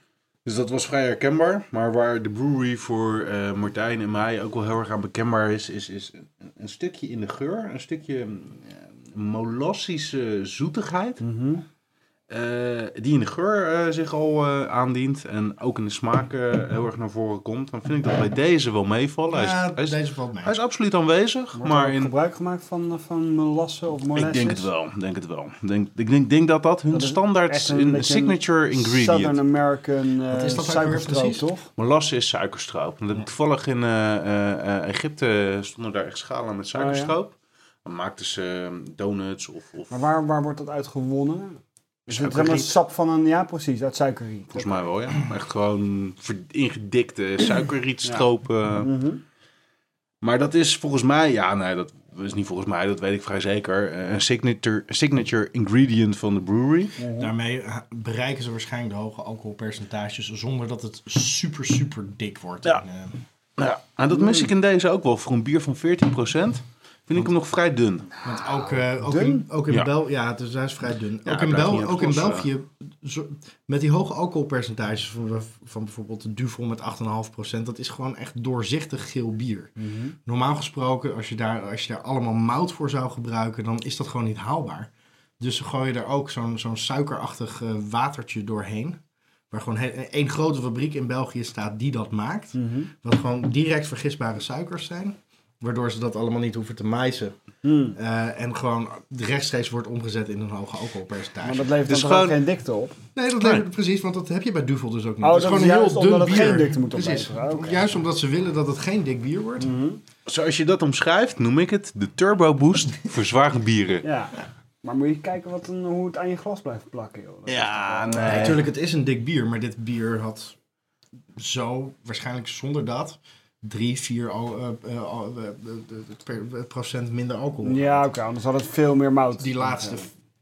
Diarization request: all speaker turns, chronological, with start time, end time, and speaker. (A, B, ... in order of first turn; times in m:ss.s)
0:00.4-0:11.2 A
0:11.2-0:11.6 B
0:12.3-0:22.1 A
0:19.3-0:20.6 C
0:21.6-0:24.7 B
0:24.2-0:29.4 A
0:26.9-0:31.7 B
0:30.3-0:31.5 C
0:31.8-0:37.3 A
0:36.8-0:37.1 B
0:37.8-0:40.0 A
0:39.9-0:44.9 B
0:42.1-0:42.7 A
0:44.5-0:48.9 A
0:48.0-0:49.2 B
0:50.2-0:57.0 A
0:57.0-0:57.3 B
0:57.2-1:03.2 C
1:03.6-1:08.1 A
1:04.1-1:04.5 B
1:08.2-1:09.4 B
1:08.2-1:19.7 C
1:11.2-1:12.5 A
1:19.8-1:20.2 B
1:20.2-1:29.0 C
1:29.5-1:37.4 C
1:32.6-1:32.9 B
1:37.6-1:38.0 B
1:37.9-1:41.7 C
1:41.4-1:43.0 B
1:41.9-1:42.4 A
1:43.2-1:49.7 C
1:45.2-1:47.9 B
1:49.6-1:50.0 B
1:50.3-1:54.0 A
1:54.0-1:58.6 B
1:57.5-1:58.6 A
1:58.2-2:00.6 C
2:01.4-2:08.1 C
2:07.6-2:10.1 B
2:09.4-2:10.1 C